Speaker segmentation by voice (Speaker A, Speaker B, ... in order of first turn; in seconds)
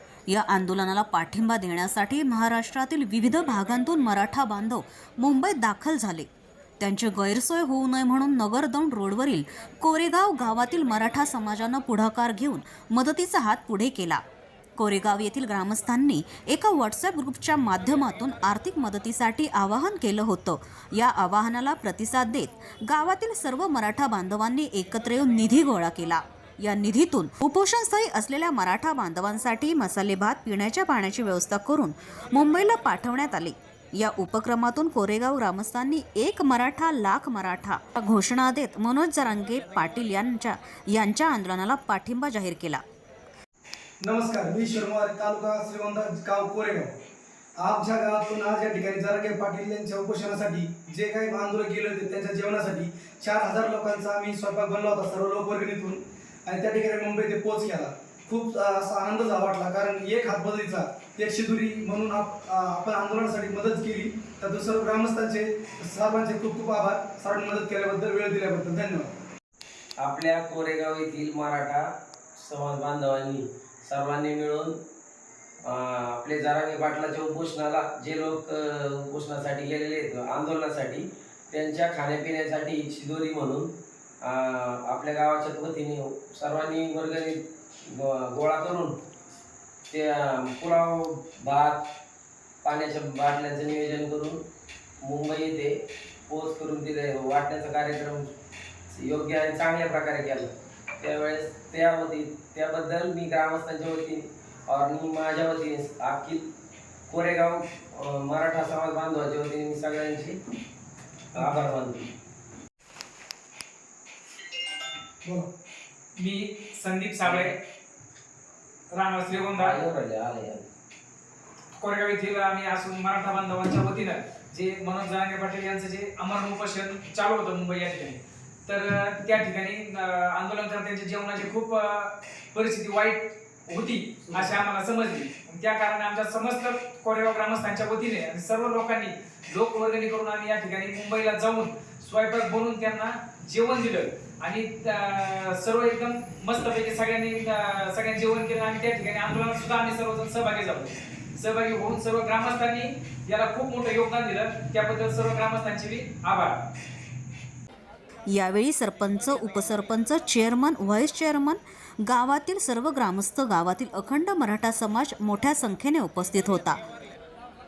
Speaker A: 0.3-6.3, 6.8-14.2, 14.8-42.8, 158.3-166.8
Speaker B: 44.0-46.9, 47.6-69.1, 115.2-115.5
Speaker C: 70.0-71.8, 72.3-74.7, 75.6-83.7, 84.2-89.0, 89.9-91.8, 92.6-94.4, 95.0-95.7, 96.3-98.2, 98.9-106.4, 107.1-110.4, 111.6-112.1, 119.6-120.7
Speaker D: 116.2-117.5, 118.9-119.8, 121.8-156.6